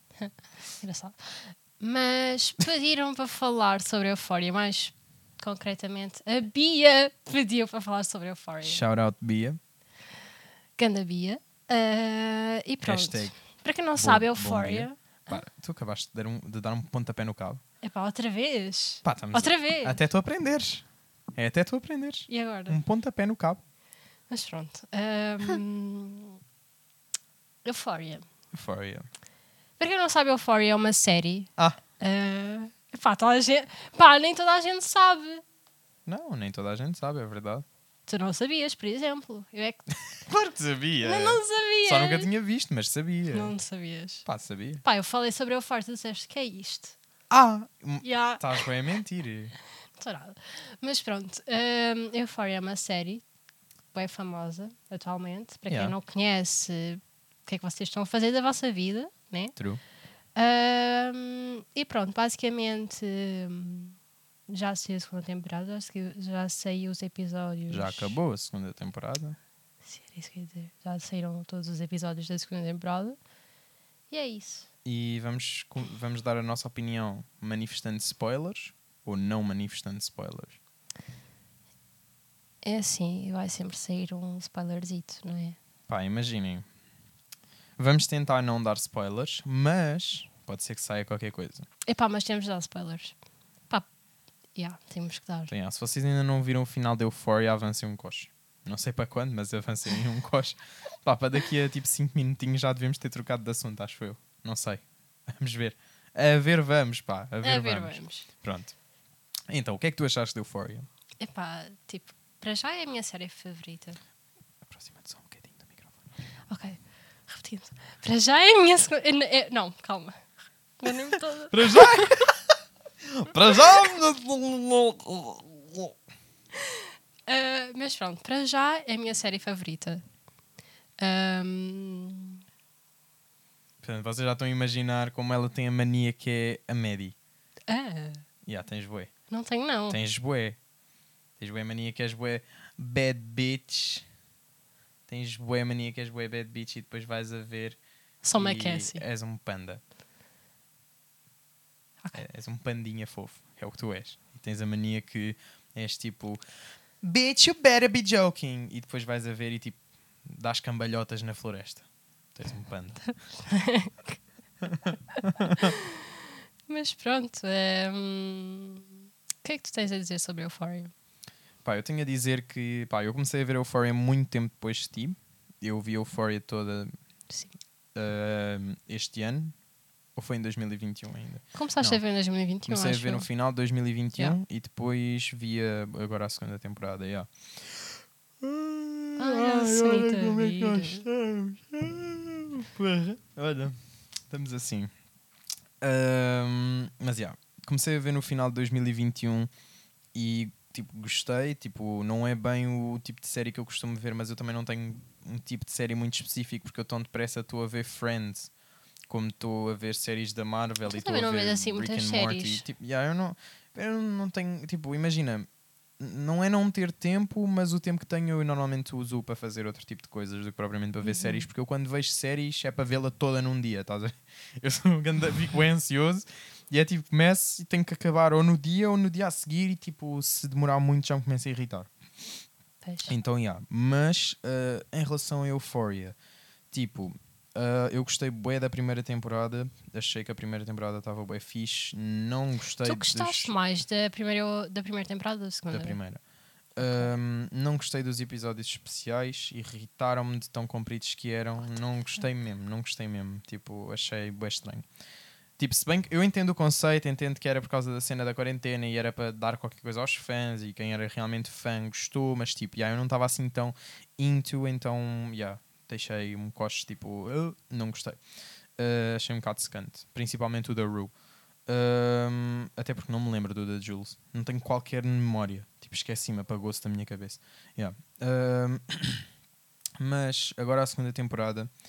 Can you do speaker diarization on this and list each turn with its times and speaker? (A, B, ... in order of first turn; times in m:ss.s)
0:00.1-0:08.8 A
0:08.6-0:09.6 B
0:10.8-0:15.4 A
0:12.8-0:13.3 B
0:14.0-0:17.6 B
0:17.8-0:20.0 A
0:19.0-0:20.8 B
0:21.4-0:23.6 B
0:22.3-0:22.8 A
0:24.3-0:26.4 A
0:27.6-0:28.3 A
0:28.5-0:29.0 B
0:29.8-0:35.4 A
0:36.0-0:37.6 B
0:38.1-0:39.9 A
0:40.2-0:43.5 B
0:41.0-0:42.3 A
0:43.3-0:44.2 A
0:44.2-0:44.8 B
0:44.8-0:46.9 A
0:47.3-0:49.5 B
0:48.0-0:48.6 A
0:50.0-0:53.2 A
0:53.9-0:59.6 A
0:55.7-0:56.0 B
1:00.3-1:04.0 A
1:04.5-1:08.2 A
1:07.7-1:09.4 B
1:09.8-1:13.2 A
1:14.1-1:14.7 A
1:14.8-1:20.6 B
1:22.6-1:25.6 A
1:25.9-1:26.6 B
1:27.8-1:31.7 B
1:31.8-1:33.1 A
1:34.5-1:35.5 A
1:35.5-1:48.7 B
1:47.4-1:48.3 A
1:49.5-1:50.9 B
1:51.2-1:54.0 A
1:54.7-1:56.0 B
1:56.5-2:00.2 A
2:00.8-2:02.2 A
2:01.5-2:02.4 B
2:03.0-2:05.9 B
2:03.5-2:03.8 A
2:06.6-2:10.0 A
2:11.0-2:12.4 A
2:13.8-2:17.1 B
2:17.7-2:18.2 A
2:18.4-2:19.1 B
2:19.3-2:20.0 A
2:19.9-2:20.6 B
2:21.4-2:24.0 B
2:25.1-2:27.8 B
2:28.2-2:29.0 A
2:28.3-2:29.8 B
2:32.1-2:36.4 B
2:37.0-2:43.1 B
2:43.4-2:44.2 A
2:44.6-2:45.7 B
2:45.5-2:46.1 A
2:46.7-2:50.9 A
2:51.6-2:56.9 B
2:57.3-2:57.5 A
2:57.9-2:59.5 B
3:00.2-3:02.0 B
3:01.5-3:03.3 A
3:02.7-3:13.7 B
3:09.2-3:11.0 A
3:14.3-3:14.9 B
3:15.8-3:19.5 B
3:20.1-3:28.5 B
3:29.1-3:35.5 B
3:30.8-3:32.6 A
3:36.0-3:51.9 B
3:41.0-3:41.5 A
3:52.8-3:53.1 A
3:53.1-3:56.1 B
3:56.7-4:03.5 B
4:02.8-4:06.0 A
4:05.7-4:06.2 B
4:06.7-4:14.8 B
4:06.8-4:07.1 A
4:15.6-4:28.2 B
4:28.8-4:31.1 B
4:31.7-4:39.3 B
4:40.0-4:41.7 B